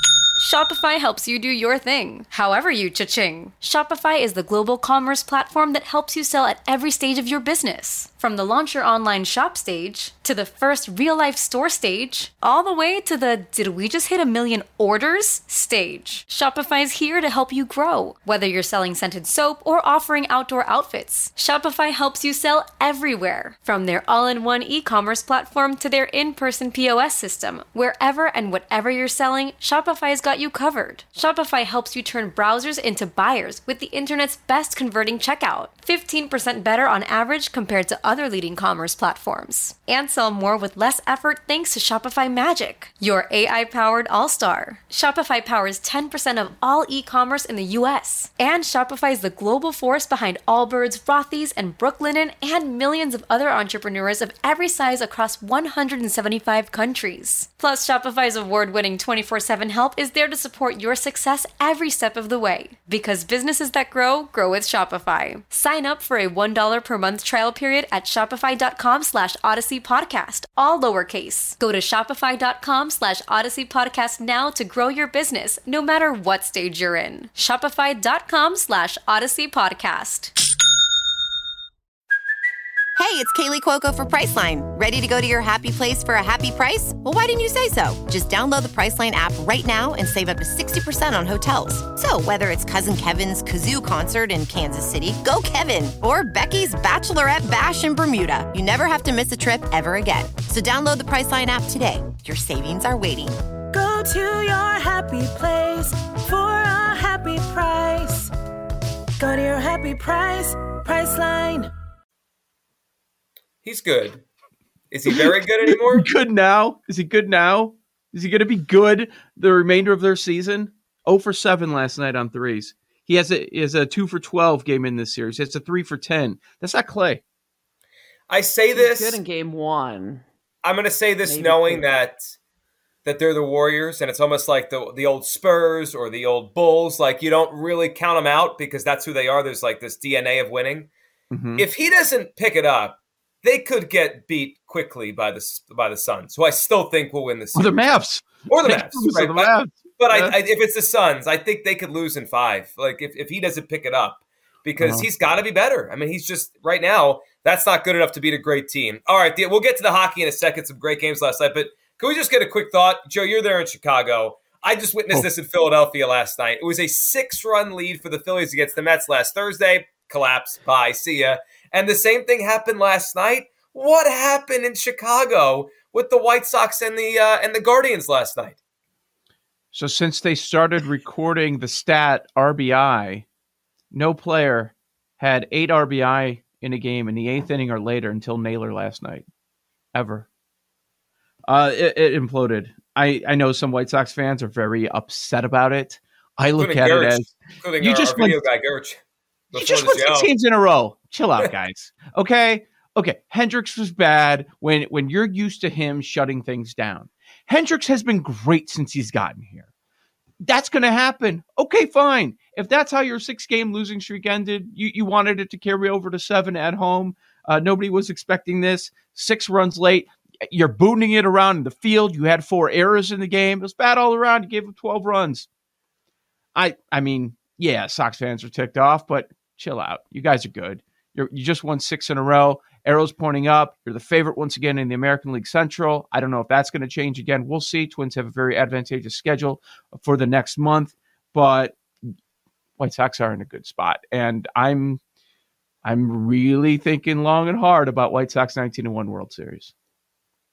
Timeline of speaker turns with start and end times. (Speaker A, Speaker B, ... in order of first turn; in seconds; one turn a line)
Speaker A: 0.4-80.3
Speaker B: 83.0-103.4
Speaker C: 103.7-108.3
Speaker C: 109.2-111.7
Speaker D: 113.6-114.2
Speaker D: 114.9-116.1
Speaker E: 115.1-127.2
Speaker D: 128.3-129.2
Speaker F: 128.7-130.2
Speaker D: 130.6-132.3
Speaker F: 131.2-131.8
Speaker D: 133.1-140.9
Speaker E: 141.3-141.7
Speaker D: 141.6-147.9
Speaker E: 147.6-150.4
Speaker D: 148.5-178.6
Speaker E: 154.8-155.1
Speaker E: 179.7-183.2
Speaker E: 183.9-189.2
Speaker E: 189.9-190.3
Speaker E: 191.5-198.4
Speaker D: 196.6-199.0
Speaker D: 199.5-200.3
Speaker E: 199.6-209.7
Speaker E: 210.4-225.5
Speaker E: 226.6-241.8
Speaker E: 242.8-245.0
Speaker E: 245.8-249.7